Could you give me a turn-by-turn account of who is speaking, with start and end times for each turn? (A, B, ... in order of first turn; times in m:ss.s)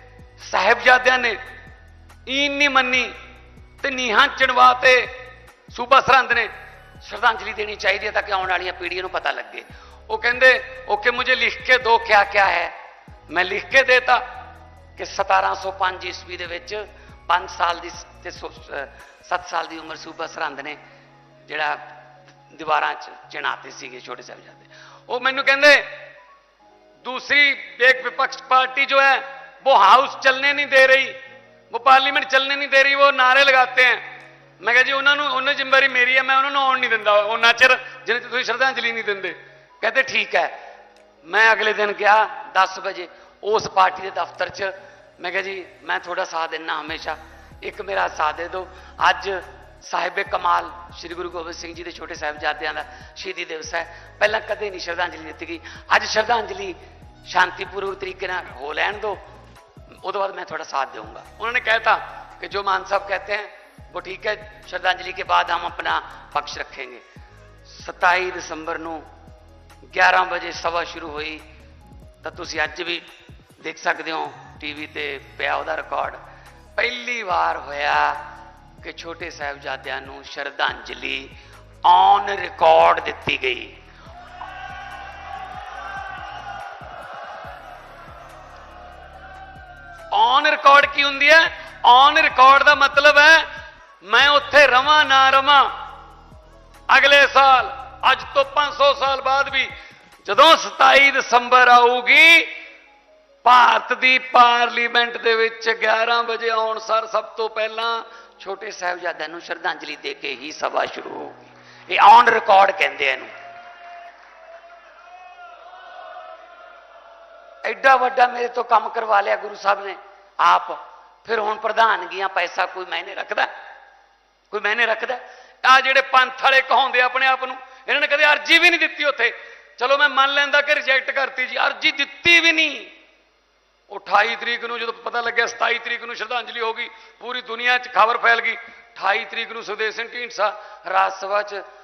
0:00.4-0:01.4 A
0:02.3-0:03.1 A
0:03.8-0:05.1 A
0:05.7-0:06.5 A
0:07.0-0:12.7 A
0:13.3-0:14.2 A
0:15.0-0:20.8 A
0:21.4-0:21.8 A
0:22.5-0:25.8 A
0:27.0-0:31.2 A
0:31.7-0:34.0 A
0:34.6-0:40.5 A
0:41.2-0:56.8 A
0:57.3-0:59.2 A
1:00.0-1:07.0 A
1:07.6-1:09.0 A
1:09.9-1:11.4 A
1:12.2-1:13.0 A
1:13.6-1:16.2 A
1:16.8-1:18.2 A
1:18.8-1:21.3 A
1:21.8-1:23.8 A
1:30.1-1:33.4 A
1:34.0-1:35.7 A
1:36.9-1:39.7 A
1:40.2-1:42.5 A
1:43.4-1:53.3 A
1:57.6-2:03.5 A
2:04.5-2:12.9 A
2:13.9-2:21.6 A